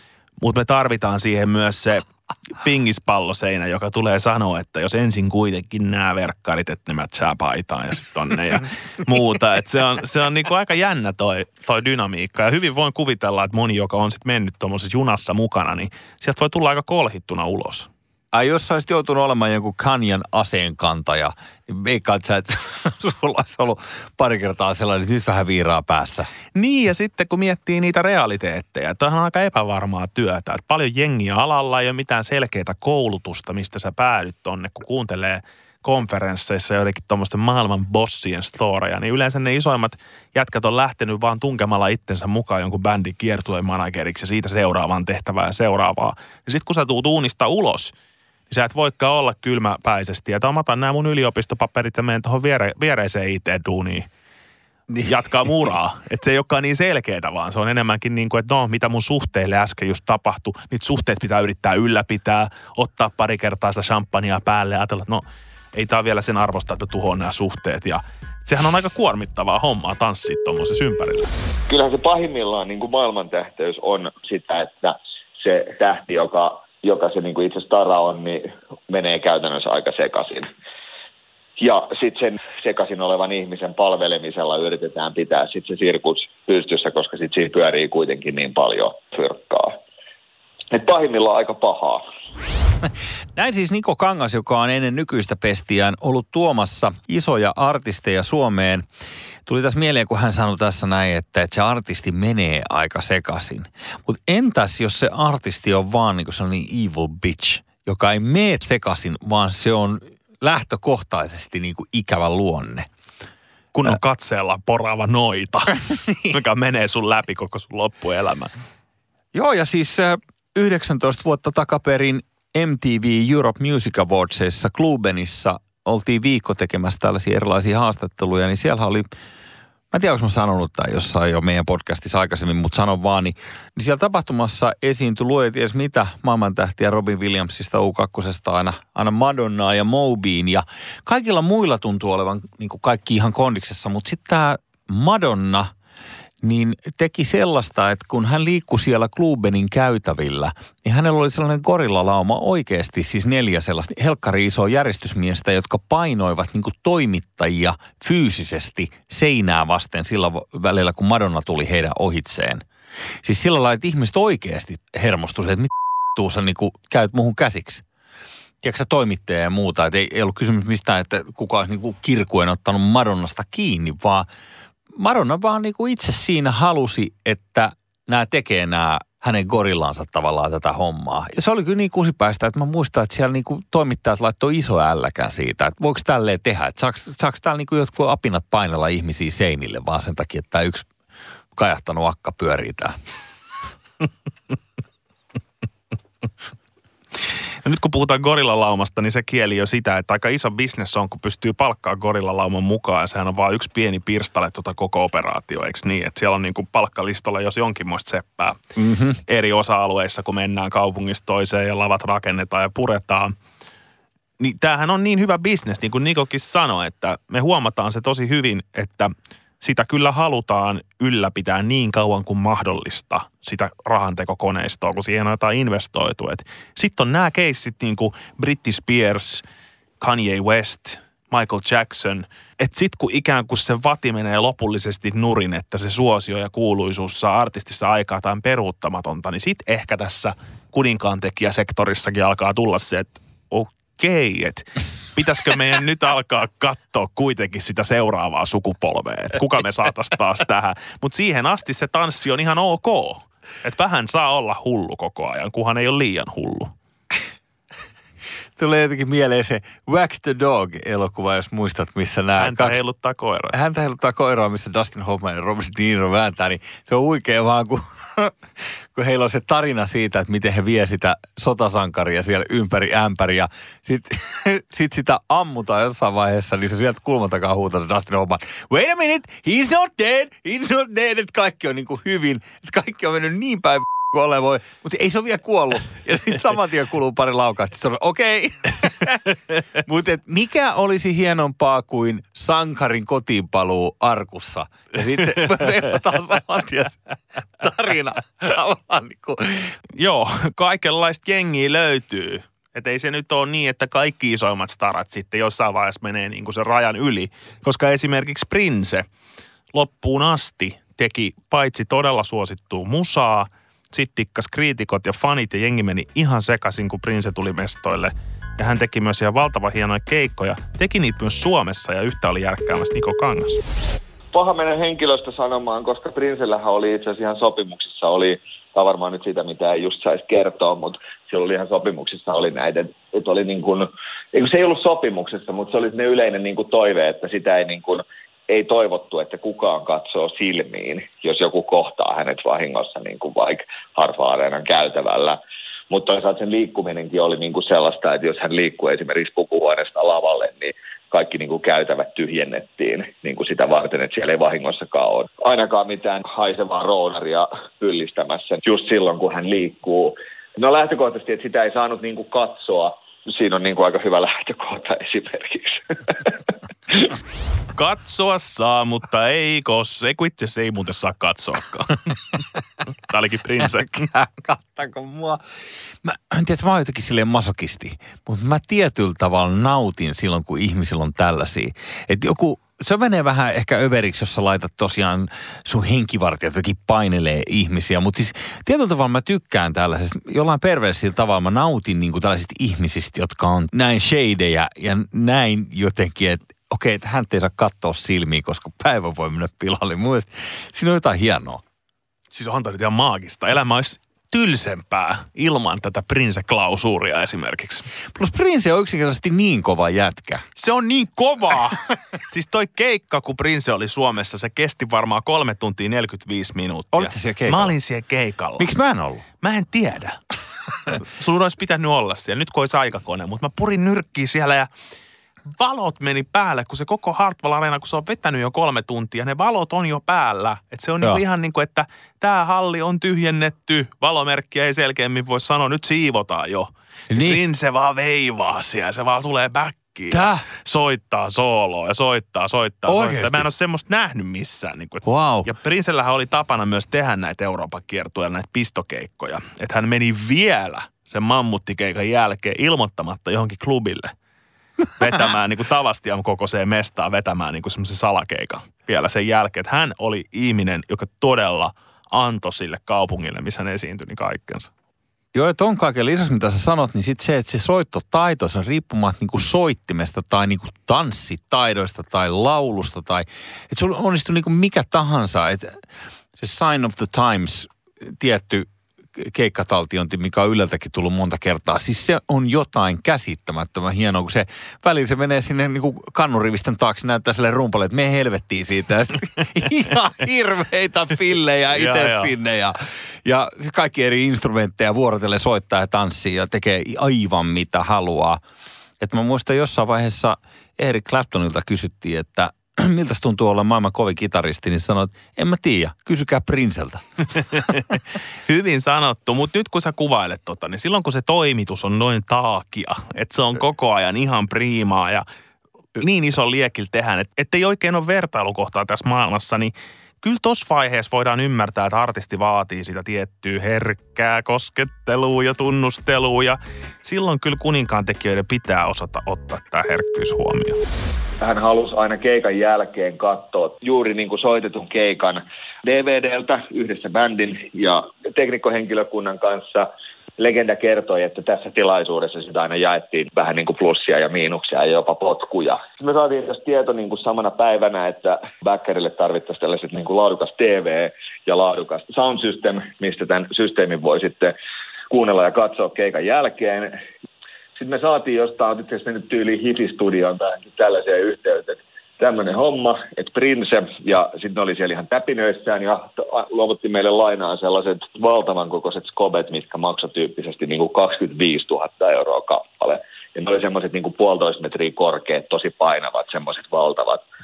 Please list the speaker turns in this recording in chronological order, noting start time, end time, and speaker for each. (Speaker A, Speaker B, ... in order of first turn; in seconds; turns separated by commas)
Speaker A: 0.4-2.0, Speaker A: 2.6-17.9, Speaker B: 18.3-26.3, Speaker A: 26.5-47.9, Speaker A: 48.5-54.1, Speaker A: 55.0-71.3, Speaker C: 71.7-80.5, Speaker C: 81.6-89.8, Speaker C: 90.7-92.0, Speaker B: 93.3-98.8, Speaker B: 99.5-112.9, Speaker A: 113.7-118.5, Speaker B: 119.3-129.1, Speaker B: 129.9-145.7, Speaker B: 146.4-162.6, Speaker B: 163.2-167.8, Speaker B: 168.6-174.3, Speaker B: 174.9-190.9, Speaker B: 191.5-192.9, Speaker A: 197.6-208.6, Speaker B: 208.8-209.2, Speaker A: 209.3-213.3, Speaker A: 214.4-229.4, Speaker A: 230.0-256.7, Speaker B: 258.6-262.8, Speaker A: 262.4-263.5, Speaker B: 263.5-268.3, Speaker B: 268.9-297.0, Speaker B: 297.6-299.8, Speaker A: 300.0-309.1, Speaker A: 309.7-323.6, Speaker C: 324.3-345.4, Speaker C: 345.9-366.4, Speaker A: 367.7-372.1, Speaker A: 373.0-374.1, Speaker B: 373.8-375.4, Speaker B: 376.0-401.6, Speaker A: 402.3-407.9, Speaker B: 408.1-410.4, Speaker A: 410.6-418.7, Speaker B: 416.9-417.7, Speaker B: 418.6-419.2, Speaker A: 419.4-420.2, Speaker A: 420.9-424.7, Speaker A: 425.6-454.1, Speaker B: 437.1-437.4, Speaker B: 440.1-440.4, Speaker B: 442.9-443.5, Speaker B: 445.0-445.5, Speaker A: 455.0-464.7, Speaker B: 465.3-475.8, Speaker B: 476.4-498.4, Speaker A: 491.7-492.3, Speaker B: 499.0-507.0, Speaker A: 508.4-515.2, Speaker A: 516.0-530.8, Speaker C: 531.4-554.5, Speaker C: 555.1-557.0, Speaker C: 557.7-577.2